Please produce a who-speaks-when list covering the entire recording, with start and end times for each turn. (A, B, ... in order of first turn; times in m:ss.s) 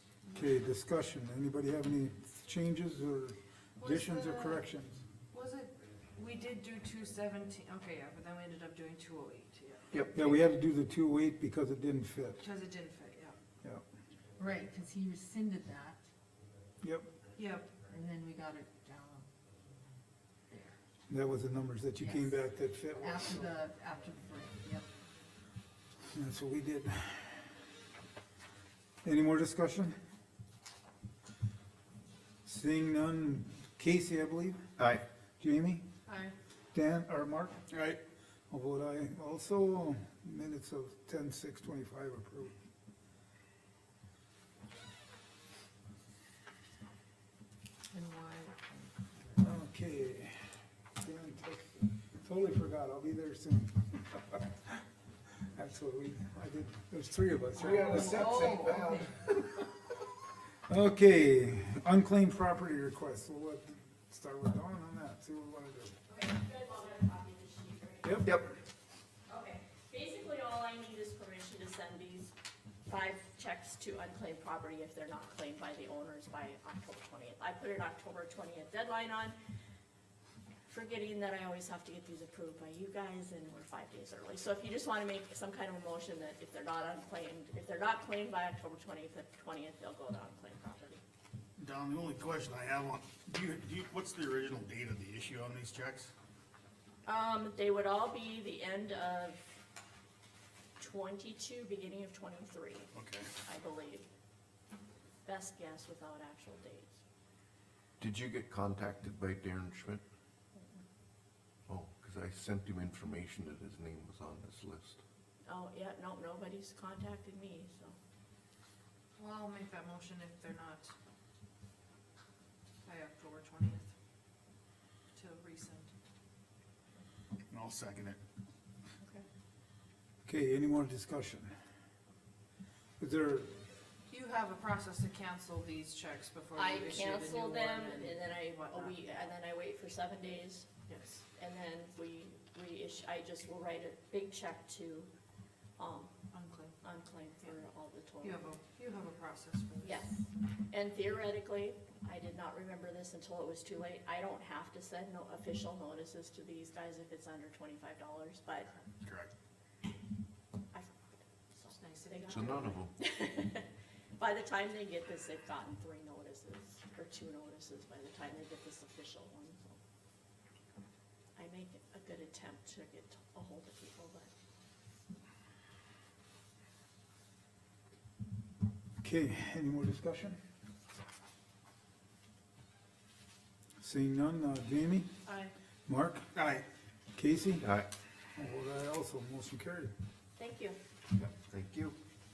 0:00.3-0:05.0 A
0:03.8-0:04.6 B
0:05.3-0:09.9 B
0:10.1-0:12.4 A
0:12.4-0:13.4 B
0:14.4-0:16.0 C
0:16.8-0:17.1 A
0:17.3-0:17.7 B
0:17.8-0:19.3 C
0:20.5-0:20.8 C
0:21.1-0:23.6 A
0:22.0-0:22.4 C
0:23.0-0:24.9 C
0:26.1-0:27.4 A
0:29.0-0:29.9 A
0:32.4-0:34.6 A
0:34.8-0:35.0 D
0:35.4-0:35.8 A
0:36.0-0:36.3 B
0:36.7-0:37.6 A
0:37.7-0:38.0 E
0:38.5-0:42.5 A
0:47.9-0:49.3 C
0:49.4-0:50.4 A
0:51.0-0:54.8 A
0:55.5-0:58.4 A
0:57.6-0:59.1 D
0:57.8-0:59.1 C
1:00.7-1:06.0 A
1:06.1-1:08.3 F
1:08.0-1:08.4 A
1:09.3-1:12.3 F
1:12.8-1:19.4 F
1:20.6-1:31.0 F
1:31.6-1:36.1 E
1:37.0-1:39.5 F
1:40.8-1:42.9 F
1:42.9-1:43.3 E
1:43.4-1:44.1 F
1:45.2-1:47.0 F
1:48.0-1:50.0 D
1:50.5-1:50.8 F
1:51.7-1:55.0 D
1:55.4-1:58.0 F
1:59.2-2:00.9 B
2:02.8-2:03.9 B
2:05.1-2:05.9 B
2:07.5-2:08.2 E
2:10.2-2:11.5 A
2:13.0-2:13.6 A
2:14.1-2:19.1 B
2:16.6-2:20.7 F
2:20.9-2:21.2 B
2:21.3-2:25.1 F
2:25.8-2:26.1 F
2:26.3-2:26.7 B
2:26.8-2:28.4 F
2:28.2-2:30.0 B
2:29.8-2:38.7 F
2:39.0-2:39.3 E
2:40.7-2:41.0 F
2:41.5-2:49.8 F
2:41.7-2:42.8 B
2:42.3-2:42.9 D
2:51.4-2:54.3 F
2:59.0-3:00.4 A
3:03.8-3:05.1 A
3:05.2-3:05.5 B
3:05.9-3:06.2 A
3:06.3-3:06.6 E
3:07.1-3:07.7 A
3:07.6-3:07.9 D
3:08.4-3:09.9 A
3:10.4-3:10.8 F
3:11.1-3:11.9 D